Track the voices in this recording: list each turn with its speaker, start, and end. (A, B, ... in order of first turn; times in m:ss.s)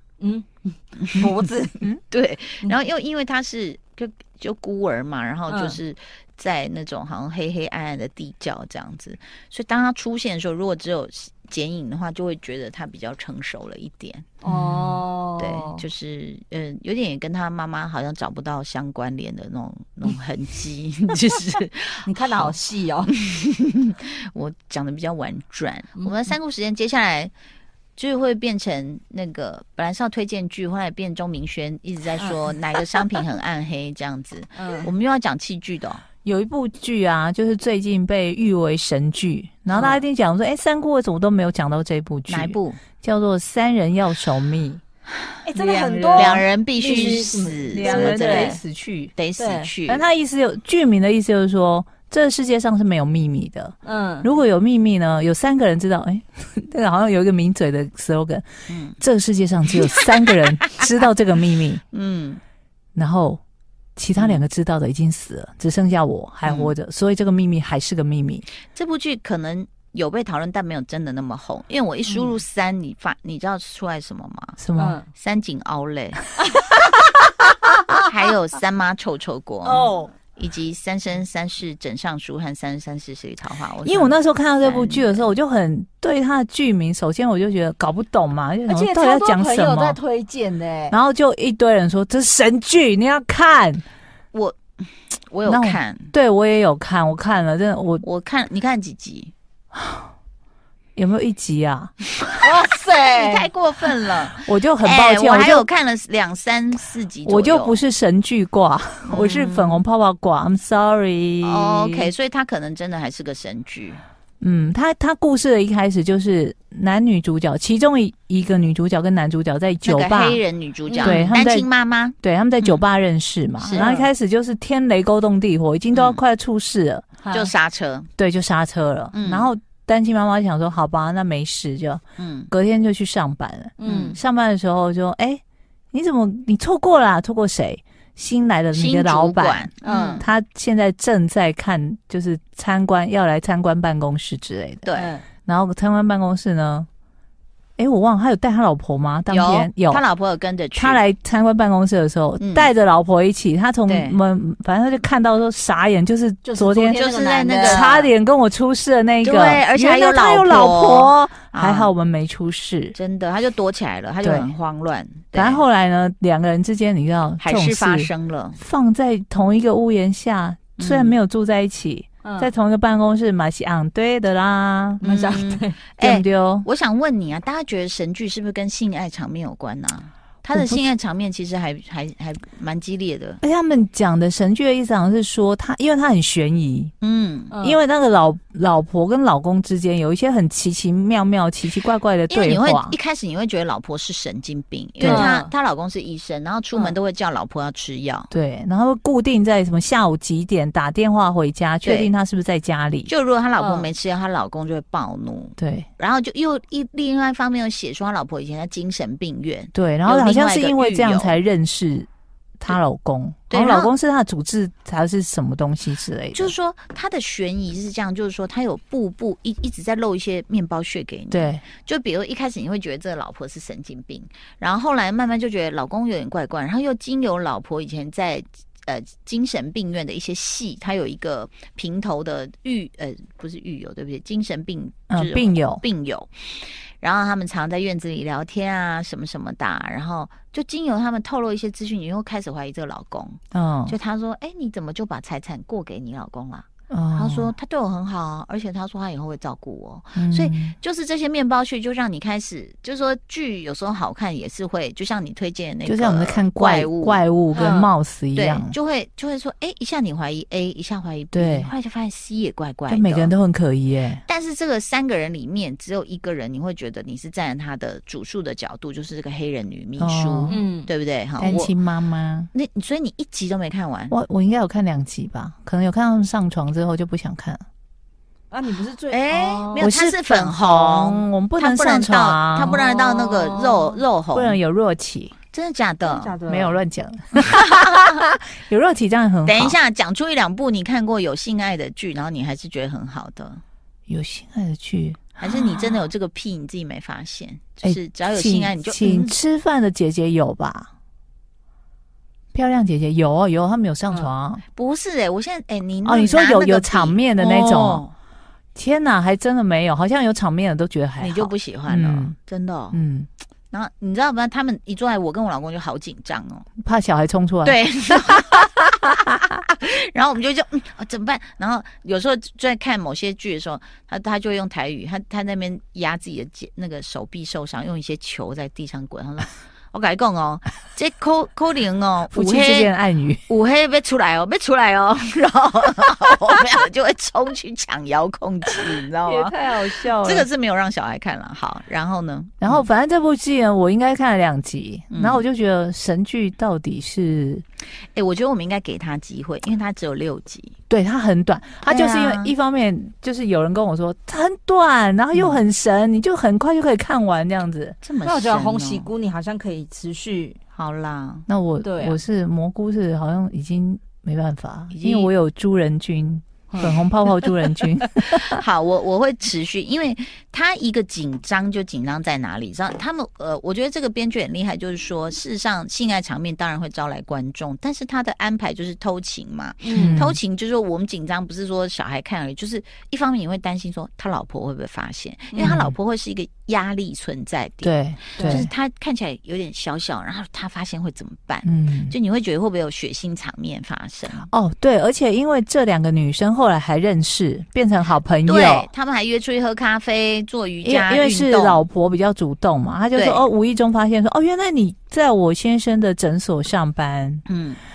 0:00.2-0:01.8 A
0:01.0-0:01.3 B
0:02.1-0:14.3 B
0:05.5-0:05.8 A
0:14.4-0:15.8 A
0:14.4-0:15.0 C
0:15.4-0:22.5 B
0:22.0-0:23.1 A
0:23.1-0:27.3 B
0:26.0-0:26.3 A
0:28.0-0:36.0 B
0:32.2-0:33.0 A
0:34.6-0:34.9 A
0:36.2-0:44.8 C
0:39.7-0:40.0 A
0:42.3-0:42.8 B
0:45.4-0:48.6 A
0:45.6-0:46.4 C
0:46.1-0:48.6 B
0:47.7-0:49.1 C
0:49.1-0:50.0 B
0:49.4-0:49.7 A
0:49.9-0:58.4 C
0:53.8-0:54.3 A
0:58.7-0:59.0 B
0:59.0-1:01.8 C
1:01.9-1:02.4 B
1:03.0-1:03.4 C
1:04.0-1:08.4 C
1:04.2-1:04.4 B
1:06.4-1:06.7 B
1:08.7-1:14.6 B
1:12.1-1:12.4 A
1:14.6-1:15.0 C
1:14.8-1:15.1 A
1:15.1-1:16.3 B
1:17.9-1:25.3 B
1:19.6-1:20.1 A
1:23.8-1:30.0 C
1:28.7-1:31.0 A
1:30.9-1:33.8 C
1:34.3-1:36.1 B
1:35.5-1:38.0 C
1:38.0-1:39.3 B
1:39.7-1:40.1 C
1:41.0-1:41.9 C
1:42.4-1:43.5 A
1:42.9-1:47.8 B
1:44.4-1:45.6 C
1:47.2-1:52.1 C
1:49.1-1:49.8 B
1:51.4-1:54.0 B
1:54.4-2:00.4 C
1:59.8-2:02.8 B
2:00.9-2:01.3 A
2:01.0-2:01.7 C
2:02.2-2:07.1 C
2:03.6-2:03.9 B
2:03.7-2:04.1 A
2:05.9-2:06.2 B
2:07.2-2:07.5 A
2:07.3-2:08.1 B
2:08.2-2:15.4 C
2:09.1-2:09.5 B
2:12.2-2:12.5 B
2:13.8-2:14.2 A
2:13.8-2:14.2 B
2:15.9-2:24.8 C
2:18.7-2:20.3 B
2:19.8-2:20.2 A
2:24.8-2:25.1 B
2:24.9-2:25.2 A
2:25.4-2:26.9 C
2:27.8-2:30.0 C
2:29.3-2:31.0 B
2:30.8-2:37.0 C
2:32.4-2:32.7 B
2:33.9-2:34.2 B
2:36.4-2:38.1 A
2:36.9-2:38.1 B
2:37.6-2:43.0 C
2:39.2-2:41.9 B
2:42.9-2:45.6 B
2:44.2-2:44.5 C
2:45.3-2:55.0 C
2:47.4-2:48.6 B
2:50.8-2:51.2 B
2:52.2-2:52.5 A
2:55.0-2:55.8 A
2:55.0-3:03.4 B
2:56.0-2:56.6 C
3:00.5-3:00.8 C
3:03.4-3:06.9 C
3:07.0-3:07.5 B
3:07.5-3:07.8 A
3:07.6-3:13.0 C
3:12.3-3:18.3 B
3:15.0-3:15.3 C
3:15.0-3:15.5 A
3:18.3-3:23.1 C
3:21.8-3:22.1 B
3:23.1-3:31.4 B
3:23.6-3:23.9 A
3:25.6-3:25.9 C
3:29.7-3:32.1 C
3:32.6-3:36.5 C
3:33.5-3:33.9 B
3:36.3-4:17.2 B
3:41.3-3:41.6 C
3:55.1-3:55.8 C
4:03.5-4:03.9 C
4:06.9-4:07.5 C
4:10.2-4:10.7 C
4:15.8-4:18.7 C
4:17.5-4:17.9 A
4:18.3-4:23.3 B
4:21.3-4:21.7 C
4:22.9-4:24.2 C
4:24.2-4:31.7 B
4:30.0-4:30.6 C
4:30.5-4:30.9 A
4:31.4-4:32.5 C
4:32.5-4:34.1 B
4:34.1-4:37.6 C
4:38.5-4:39.9 A
4:39.1-4:44.6 B
4:39.8-4:42.7 C
4:42.6-4:44.0 A
4:44.3-4:45.3 C
4:45.5-4:46.4 B
4:46.0-4:46.8 A
4:46.5-4:49.8 C
4:47.4-4:48.2 B
4:49.4-4:53.6 B
4:54.1-4:56.0 C
4:55.4-4:59.4 B
4:57.8-5:00.9 C
5:02.5-5:04.6 C
5:04.8-5:08.1 B
5:06.0-5:08.0 C
5:08.7-5:12.3 C
5:11.2-5:13.0 B
5:12.9-5:13.3 C
5:13.7-5:16.7 B
5:16.8-5:17.8 C
5:17.6-5:32.9 B
5:32.3-5:33.4 C
5:33.5-5:42.8 B
5:39.2-5:40.5 C
5:42.6-5:47.6 C
5:45.1-5:45.4 B
5:48.1-5:50.8 B
5:50.9-5:58.0 C
5:51.8-5:52.5 B
5:55.3-5:55.6 B
5:58.0-5:59.1 B
5:58.2-6:00.6 A
6:00.7-6:01.5 B
6:01.5-6:08.6 C
6:01.8-6:02.2 A
6:04.9-6:05.3 B
6:06.7-6:07.0 A
6:08.3-6:34.5 B
6:19.8-6:20.2 A
6:19.9-6:20.4 C
6:25.5-6:25.8 A
6:25.6-6:25.9 C
6:27.8-6:28.7 C
6:28.4-6:28.7 A
6:31.6-6:32.1 C
6:34.5-6:38.9 C
6:38.4-6:41.8 B
6:40.8-6:47.4 C
6:43.2-6:43.4 B
6:47.5-6:47.8 B